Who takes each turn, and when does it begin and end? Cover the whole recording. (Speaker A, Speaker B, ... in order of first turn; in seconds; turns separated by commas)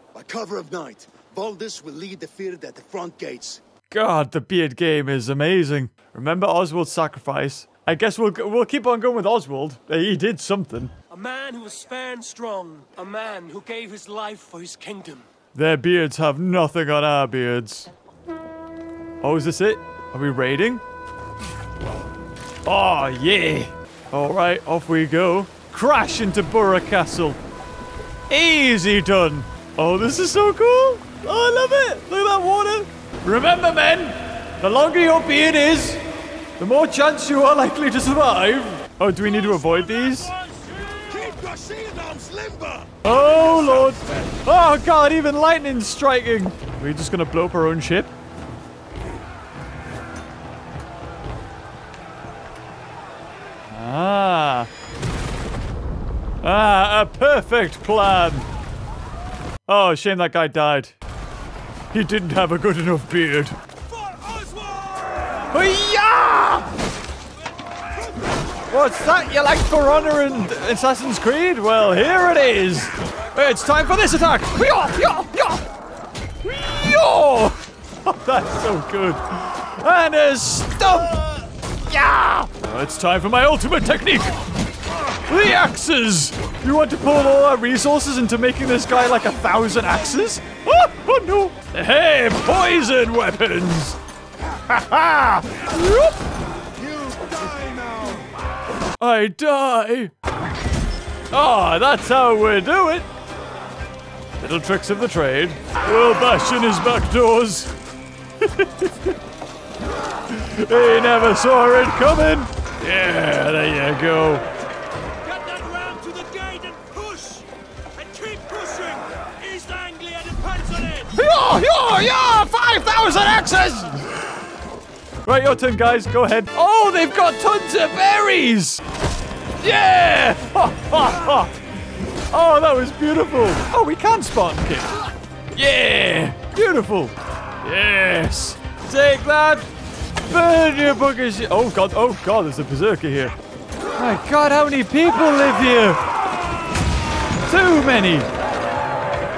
Speaker A: 0.1-3.6, Speaker B: 3.9-10.9, Speaker C: 11.1-15.3, Speaker B: 15.6-17.9, Speaker B: 19.2-20.8, Speaker B: 22.7-27.4, Speaker B: 28.3-36.0, Speaker B: 36.6-40.3, Speaker A: 40.9-44.2, Speaker B: 43.0-48.1, Speaker B: 53.7-54.7, Speaker B: 56.4-58.5, Speaker B: 59.7-61.0, Speaker B: 61.9-63.6, Speaker C: 64.0-65.5, Speaker B: 65.5-66.7, Speaker B: 68.7-75.6, Speaker B: 76.4-84.4, Speaker B: 85.2-94.0, Speaker B: 94.6-96.2, Speaker A: 96.9-98.2, Speaker B: 99.0-100.1, Speaker B: 101.3-103.1, Speaker B: 104.4-107.7, Speaker B: 108.4-109.1, Speaker B: 110.3-114.4, Speaker C: 115.2-121.2, Speaker B: 121.1-124.4, Speaker B: 125.2-128.8, Speaker B: 129.6-135.0, Speaker B: 135.5-139.7, Speaker B: 140.3-143.3, Speaker B: 144.0-146.0, Speaker B: 147.4-148.3